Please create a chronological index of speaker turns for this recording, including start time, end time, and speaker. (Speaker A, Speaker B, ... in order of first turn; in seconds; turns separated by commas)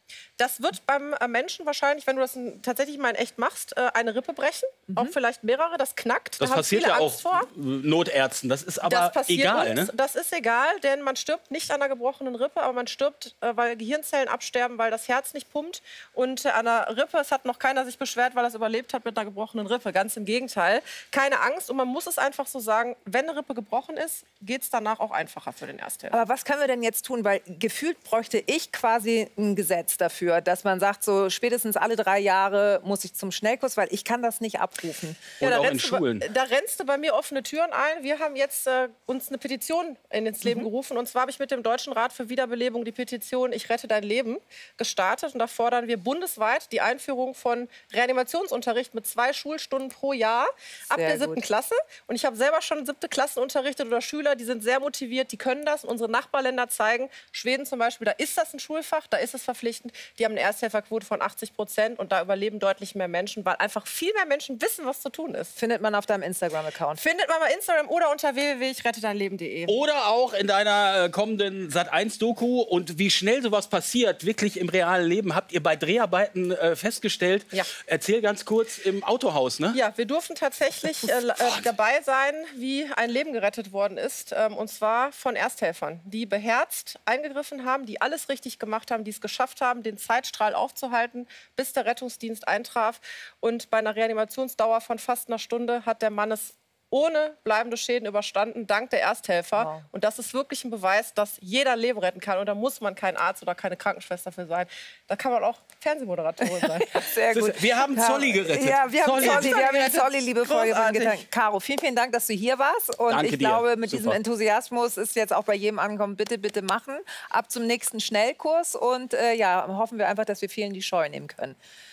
Speaker A: 0.4-7.5, Speaker B: 6.4-9.9, Speaker A: 8.8-26.2, Speaker C: 26.1-35.2, Speaker B: 35.4-36.2, Speaker A: 35.4-65.5, Speaker C: 50.9-51.4, Speaker C: 65.5-67.0, Speaker A: 67.0-69.8, Speaker B: 69.7-79.8, Speaker A: 79.7-107.1, Speaker C: 99.5-99.8, Speaker C: 106.4-121.5, Speaker B: 107.3-109.6, Speaker A: 109.0-111.2, Speaker B: 113.1-114.2